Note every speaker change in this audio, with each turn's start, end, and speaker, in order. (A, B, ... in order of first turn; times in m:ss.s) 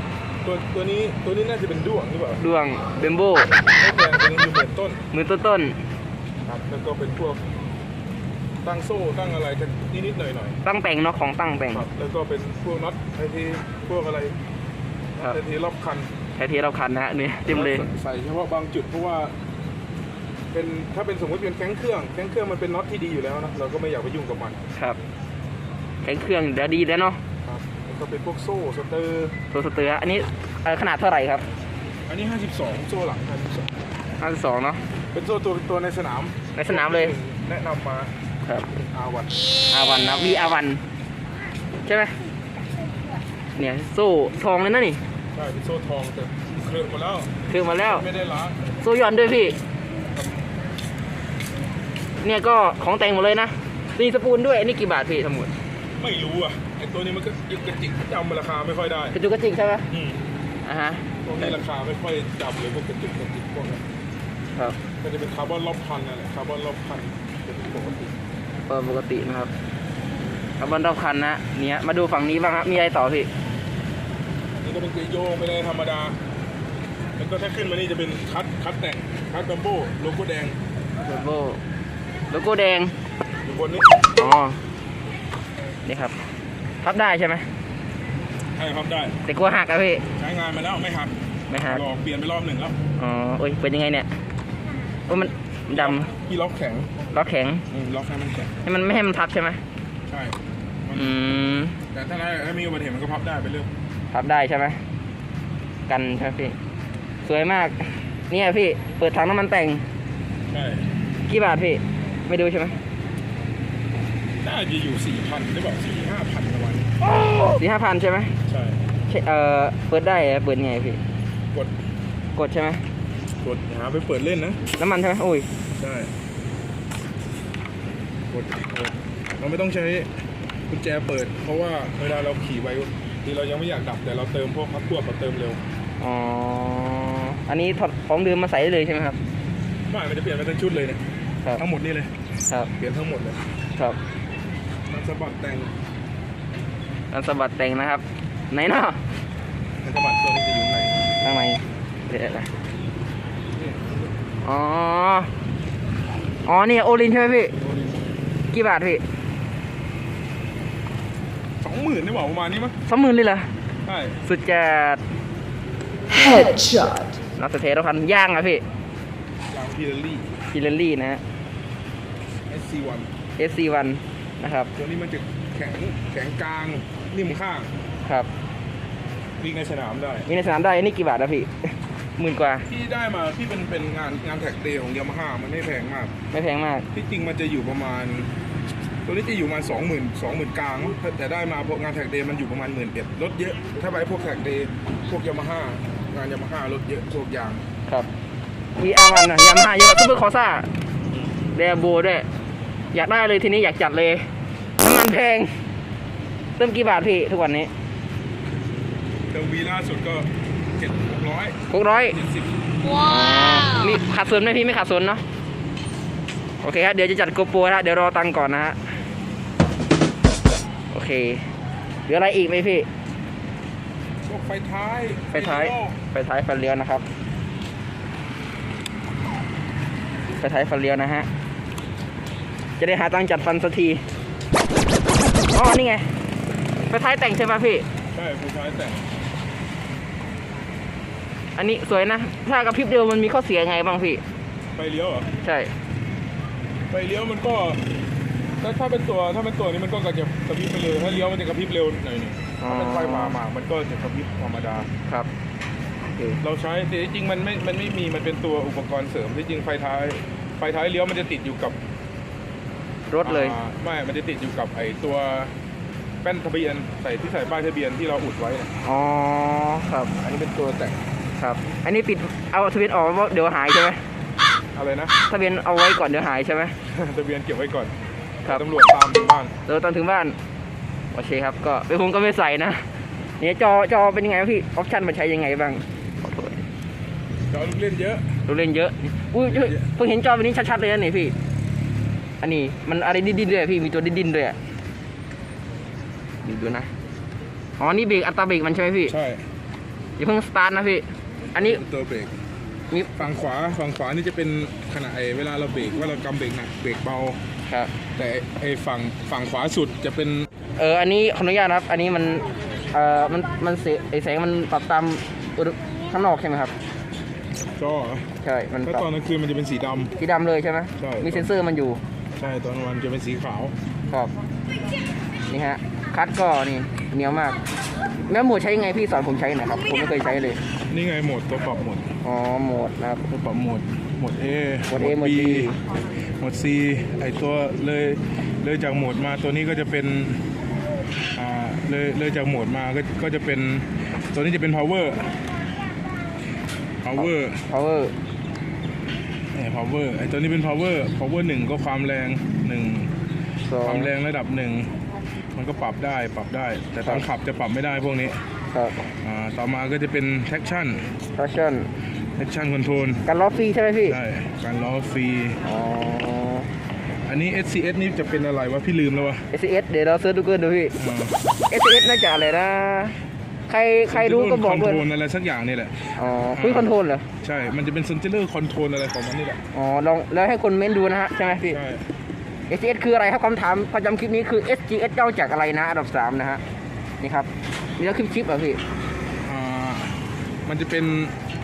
0:00.4-0:02.4 A
0:02.4-0:03.5 B
0:03.8-0:05.0 A
0:05.1-0:05.8 B
0:06.5-0:07.4 A
0:08.6-0:10.6 A
0:10.6-0:11.9 B
0:11.7-0:14.4 A
0:15.2-0:16.1 A
0:16.4-0:17.9 B
0:17.5-0:19.4 A
0:20.5-0:24.6 A
0:26.0-0:27.2 B
0:27.4-0:29.4 A
0:29.5-0:31.4 B
0:32.1-0:33.8 A
0:34.2-0:34.8 B
0:35.1-0:38.2 A
0:36.6-0:37.2 B
0:38.8-0:39.4 A
0:39.7-0:40.8 B
0:41.8-0:42.2 B
0:43.6-0:45.0 B
0:45.3-0:48.7 A
0:47.5-0:48.0 B
0:48.8-0:49.6 B
0:52.2-0:55.5 B
0:56.0-0:59.2 A
0:59.1-0:59.9 B
0:59.9-1:00.2 A
1:00.6-1:01.5 B
1:01.2-1:03.8 A
1:05.0-1:08.1 A
1:08.7-1:09.5 B
1:10.6-1:13.3 B
1:14.6-1:16.2 A
1:17.2-1:20.6 A
1:21.0-1:21.6 B
1:22.3-1:22.9 B
1:23.4-1:24.0 A
1:24.2-1:24.6 B
1:25.8-1:26.1 B
1:26.8-1:27.5 B
1:28.6-1:29.2 A
1:29.2-1:30.0 B
1:30.2-1:32.8 A
1:31.5-1:31.8 B
1:33.0-1:34.1 B
1:35.1-1:36.1 B
1:35.7-1:36.9 A
1:37.1-1:37.6 B
1:37.7-1:38.6 A
1:38.6-1:39.6 B
1:40.1-1:41.2 A
1:40.9-1:41.8 B
1:41.9-1:43.7 A
1:44.1-1:44.8 B
1:45.9-1:46.6 B
1:47.2-1:49.8 B
1:50.5-1:50.9 A
1:51.3-1:52.8 B
1:54.4-1:56.9 A
1:57.5-1:58.3 B
1:58.5-1:58.8 A
1:59.1-2:01.0 B
2:02.4-2:02.8 B
2:03.4-2:04.6 A
2:04.8-2:05.5 B
2:05.8-2:06.1 A
2:08.3-2:10.1 A
2:10.7-2:15.6 A
2:16.0-2:19.2 B
2:19.9-2:22.1 A
2:22.8-2:23.5 A
2:24.9-2:25.7 A
2:27.1-2:29.0 B
2:29.8-2:31.1 A
2:31.2-2:32.5 B
2:33.6-2:34.0 A
2:34.4-2:35.3 B
2:36.4-2:37.5 B
2:38.5-2:39.0 B
2:41.6-2:42.8 A
2:42.9-2:43.5 B
2:43.8-2:44.2 A
2:44.2-2:45.0 B
2:46.1-2:46.8 B
2:47.4-2:48.6 B
2:49.5-2:50.4 A
2:50.5-2:51.2 B
2:52.5-2:53.1 A
2:53.4-2:54.7 B
2:54.8-2:57.7 A
2:58.0-2:58.3 B
2:59.4-3:00.3 A
3:00.3-3:02.7 B
3:02.7-3:06.1 A
3:06.3-3:06.9 B
3:06.9-3:08.3 A
3:09.0-3:17.6 A
3:18.8-3:20.7 B
3:21.5-3:22.3 B
3:22.9-3:24.3 B
3:24.8-3:25.6 B
3:26.6-3:27.7 B
3:29.3-3:32.7 A
3:31.7-3:32.2 B
3:32.9-3:35.2 B
3:36.6-3:38.9 B
3:40.9-3:41.4 B
3:42.1-3:42.9 B
3:44.2-3:46.0 A
3:45.3-3:47.0 B
3:50.3-3:51.3 B
3:52.8-3:54.0 B
3:55.5-3:56.1 B
3:56.9-3:57.9 B
3:58.1-3:59.1 A
4:01.6-4:04.2 B
4:04.8-4:05.3 A
4:05.4-4:05.7 B
4:06.9-4:07.8 A
4:08.6-4:14.9 A
4:12.6-4:13.4 B
4:16.1-4:16.4 B
4:16.4-4:21.8 A
4:23.1-4:23.6 B
4:23.2-4:25.5 A
4:26.2-4:28.7 A
4:28.8-4:30.1 B
4:30.2-4:31.1 A
4:31.4-4:34.0 B
4:34.7-4:35.2 A
4:35.3-4:36.8 B
4:36.8-4:38.0 A
4:38.5-4:39.6 A
4:39.7-4:40.4 B
4:41.1-4:42.9 B
4:43.4-4:46.6 B
4:47.5-4:48.4 A
4:48.5-4:51.4 B
4:49.5-4:49.9 A
4:52.4-4:54.6 B
4:56.4-4:56.9 B
4:57.8-4:59.2 B
4:59.1-4:59.5 A
5:00.2-5:01.8 B
5:01.6-5:02.3 A
5:02.9-5:03.2 B
5:03.2-5:07.4 A
5:07.7-5:07.9 B
5:08.2-5:10.5 A
5:10.8-5:16.7 B
5:17.8-5:18.3 A
5:18.4-5:19.1 B
5:18.8-5:20.2 A
5:20.2-5:22.0 B
5:21.0-5:21.5 A
5:22.4-5:23.8 A
5:25.5-5:27.6 B
5:28.3-5:30.6 B
5:30.9-5:32.1 A
5:32.2-5:33.3 B
5:33.3-5:40.5 A
5:34.9-5:35.8 B
5:41.3-5:45.4 A
5:47.0-5:47.6 A
5:47.2-5:48.2 B
5:49.5-5:53.1 A
5:53.7-5:54.1 B
5:53.8-5:54.9 A
5:55.5-5:58.4 A
5:58.7-5:59.0 B
5:59.2-6:01.1 A
6:01.4-6:01.9 B
6:02.4-6:03.2 A
6:03.2-6:04.2 B
6:04.1-6:05.6 A
6:05.6-6:06.7 B
6:07.3-6:09.5 A
6:09.5-6:11.0 B
6:11.0-6:11.4 A
6:11.7-6:13.2 B
6:13.7-6:15.0 B
6:14.1-6:16.9 A
6:16.2-6:17.3 B
6:17.4-6:19.6 A
6:19.7-6:21.8 B
6:21.6-6:22.1 A
6:22.7-6:26.6 B
6:27.2-6:28.8 B
6:29.4-6:31.4 A